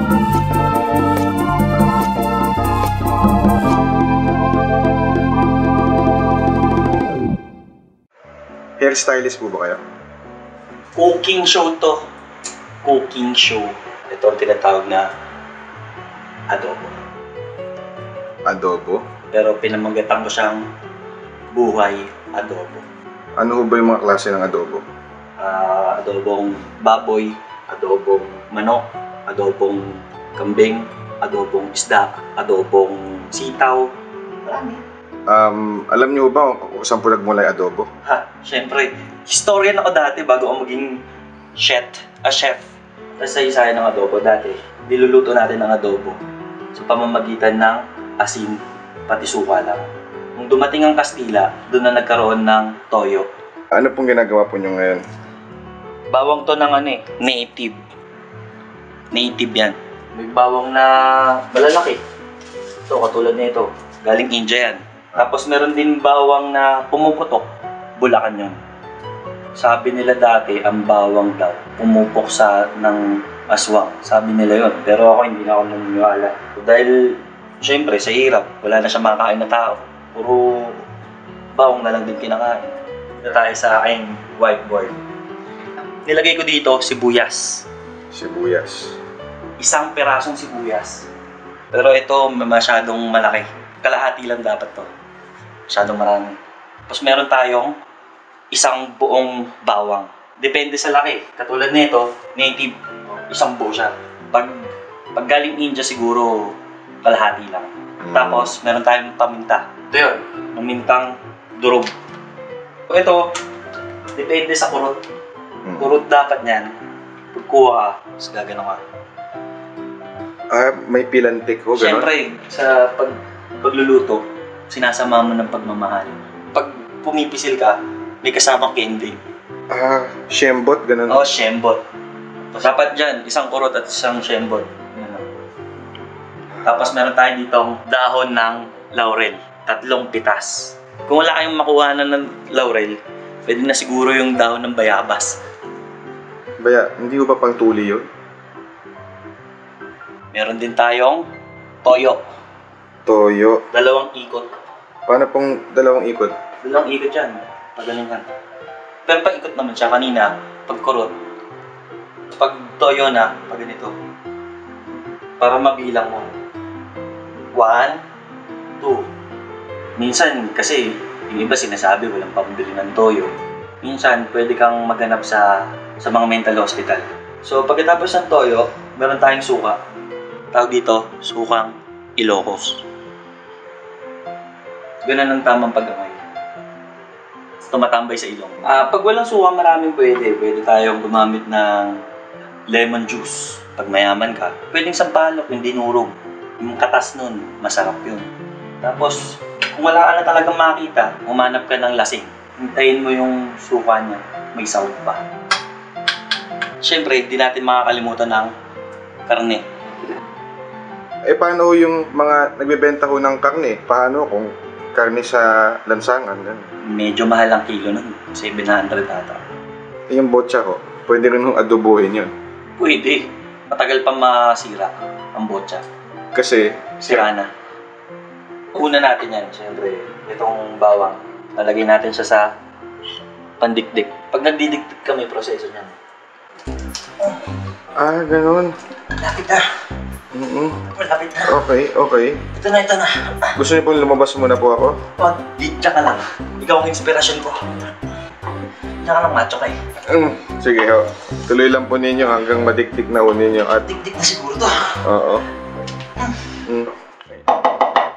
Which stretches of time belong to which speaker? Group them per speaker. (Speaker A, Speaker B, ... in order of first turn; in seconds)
Speaker A: 8.8-9.8, 18.4-19.0, 23.4-24.8, 35.3-37.9, 53.7-55.0, 88.1-89.0, 108.0-108.5, 115.6-116.0, 120.5-122.1, 129.7-131.2, 146.6-148.1, 153.1-153.6, 155.1-156.3, 211.2-216.7, 220.1-222.3, 226.3-227.3, 237.9-238.8, 240.3-240.8, 241.4-242.4, 243.6-245.0, 250.1-253.9, 255.0-255.5, 256.6-257.5
Speaker B: 10.9-12.0, 12.8-15.1, 16.5-17.0, 19.3-20.6, 21.5-22.9, 25.4-33.9, 34.4-34.8, 38.0-41.0, 41.5-42.6, 43.2-46.2, 46.7-53.3, 56.1-57.8, 59.1-62.0, 62.9-67.5, 68.0-68.6, 69.5-80.8, 81.5-84.9, 86.0-87.6, 89.6-91.1, 91.7-94.9, 95.7-96.3, 96.9-97.7, 98.5-111.9, 112.9-113.3, 114.1-115.0, 115.7-116.7, 117.3-118.8, 121.8-129.2, 131.1-131.8, 132.5-135.2, 136.6-145.4, 150.3-151.3, 151.8-152.2, 153.7-154.5, 156.6-158.2, 159.1-161.2, 162.3-163.9, 165.4-166.3, 167.5-168.0, 168.8-169.1, 170.0-179.8, 180.5-182.8, 185.0-186.2, 187.7-192.0, 192.7-198.3, 198.8-205.2, 206.8-208.5, 209.3-209.6, 216.8-219.4, 222.8-225.8, 227.1-227.5, 228.7-232.5, 233.6-235.9, 239.2-239.7, 240.9-241.7, 242.5-243.6, 245.2-247.9, 249.0-249.8, 253.7-255.0, 256.2-256.4